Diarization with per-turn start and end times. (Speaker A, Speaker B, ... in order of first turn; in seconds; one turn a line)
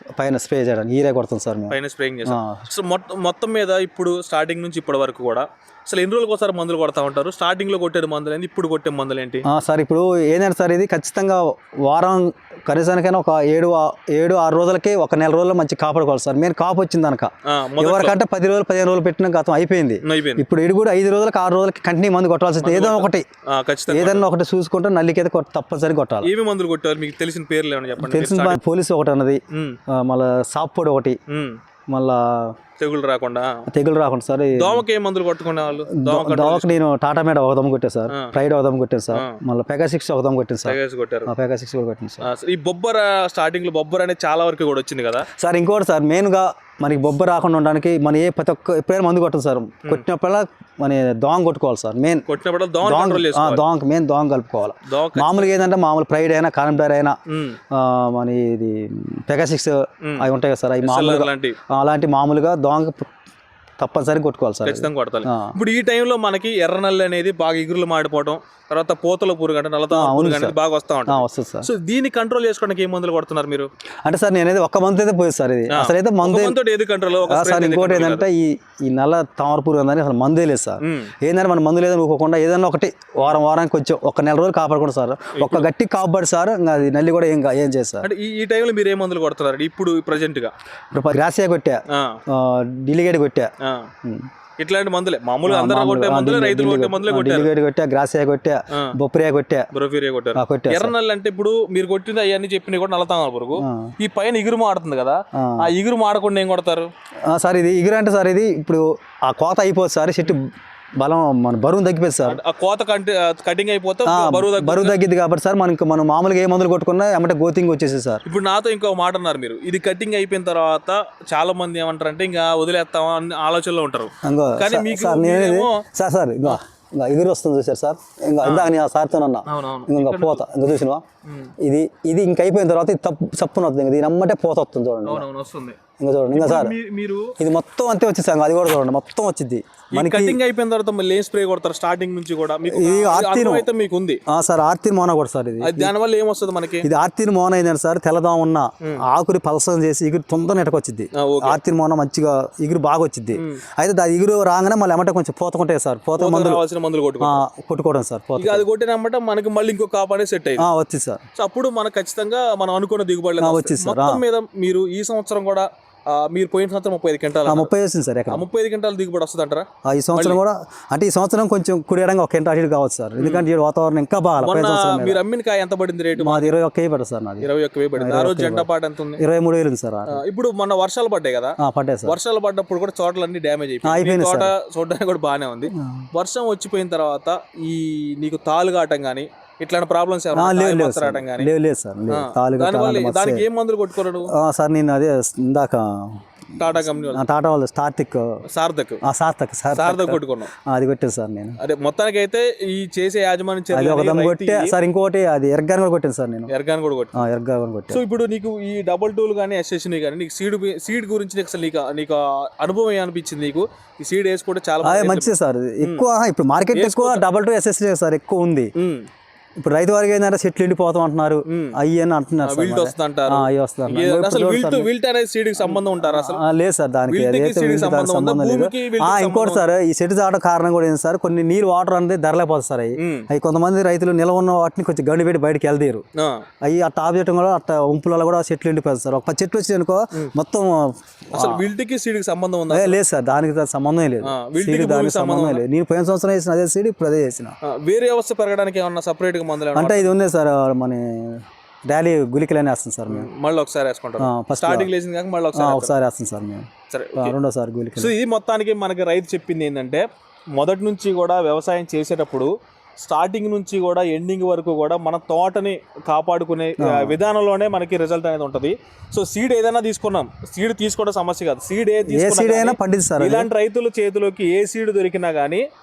Speaker A: 0.2-2.7
Speaker B: 1.7-9.4
Speaker A: 9.4-23.2
Speaker B: 17.5-18.2
Speaker B: 20.0-20.4
Speaker B: 22.6-24.2
Speaker A: 23.9-26.3
Speaker B: 26.2-28.6
Speaker A: 28.0-31.2
Speaker B: 29.5-29.8
Speaker B: 31.3-31.6
Speaker A: 31.9-32.5
Speaker B: 32.8-33.6
Speaker A: 33.7-34.8
Speaker B: 34.5-36.7
Speaker A: 35.9-42.2
Speaker B: 38.1-38.3
Speaker B: 39.1-39.4
Speaker B: 40.6-41.3
Speaker B: 42.2-45.3
Speaker A: 45.3-52.3
Speaker B: 52.3-53.6
Speaker A: 52.8-57.2
Speaker B: 54.9-55.5
Speaker B: 57.3-57.6
Speaker A: 57.7-63.1
Speaker B: 60.0-60.3
Speaker B: 60.8-61.6
Speaker A: 63.8-65.6
Speaker B: 64.6-73.7
Speaker A: 69.9-70.5
Speaker A: 71.1-71.7
Speaker A: 74.0-76.6
Speaker B: 75.7-78.2
Speaker A: 77.2-88.1
Speaker B: 80.8-81.1
Speaker B: 85.3-85.7
Speaker B: 88.0-90.5
Speaker A: 90.9-93.5
Speaker B: 91.9-92.2
Speaker B: 93.6-93.9
Speaker B: 94.6-97.5
Speaker A: 95.5-99.7
Speaker B: 99.7-106.9
Speaker A: 100.3-100.9
Speaker A: 103.6-103.9
Speaker A: 105.3-105.7
Speaker A: 107.3-112.4
Speaker B: 112.2-115.0
Speaker A: 114.0-118.2
Speaker B: 118.2-125.8
Speaker A: 124.2-131.0
Speaker B: 128.4-128.7
Speaker B: 129.4-130.4
Speaker B: 131.2-131.5
Speaker A: 131.6-135.2
Speaker B: 135.0-135.8
Speaker A: 136.0-136.8
Speaker B: 136.3-137.3
Speaker A: 137.4-140.4
Speaker B: 139.9-144.2
Speaker A: 142.7-143.7
Speaker A: 144.3-145.9
Speaker B: 145.6-146.9
Speaker A: 146.8-156.6
Speaker B: 151.1-151.6
Speaker B: 153.3-153.6
Speaker B: 156.2-157.4
Speaker A: 157.2-158.7
Speaker B: 158.4-160.6
Speaker A: 160.6-161.2
Speaker B: 161.3-167.7
Speaker A: 163.4-164.2
Speaker A: 167.5-168.4
Speaker B: 168.3-170.4
Speaker A: 169.8-175.2
Speaker B: 173.2-173.4
Speaker B: 174.4-176.5
Speaker A: 176.2-180.2
Speaker B: 177.4-179.2
Speaker B: 180.1-191.5
Speaker A: 181.6-182.2
Speaker A: 183.8-184.5
Speaker A: 185.7-186.1
Speaker A: 190.3-193.5
Speaker B: 192.1-194.3
Speaker A: 194.3-198.4
Speaker B: 196.6-197.2
Speaker B: 198.4-199.0
Speaker A: 199.0-201.6
Speaker B: 199.7-200.5
Speaker B: 201.6-204.8
Speaker A: 203.7-206.5
Speaker B: 206.5-207.2
Speaker A: 207.2-208.0
Speaker B: 207.9-216.0
Speaker A: 214.8-218.7
Speaker B: 216.7-217.2
Speaker B: 218.8-219.0
Speaker A: 219.6-224.9
Speaker B: 221.5-221.8
Speaker B: 222.4-226.4
Speaker A: 225.6-236.0
Speaker B: 227.1-229.6
Speaker B: 233.0-233.3
Speaker B: 236.2-236.4
Speaker A: 236.6-241.6
Speaker B: 241.3-243.0
Speaker A: 242.7-247.5
Speaker B: 244.2-245.6
Speaker B: 247.6-250.1
Speaker A: 249.7-253.3
Speaker B: 253.1-255.9
Speaker A: 254.2-254.9
Speaker A: 255.5-258.1
Speaker B: 256.9-257.3
Speaker B: 258.0-275.6
Speaker A: 266.8-267.2
Speaker A: 272.1-273.5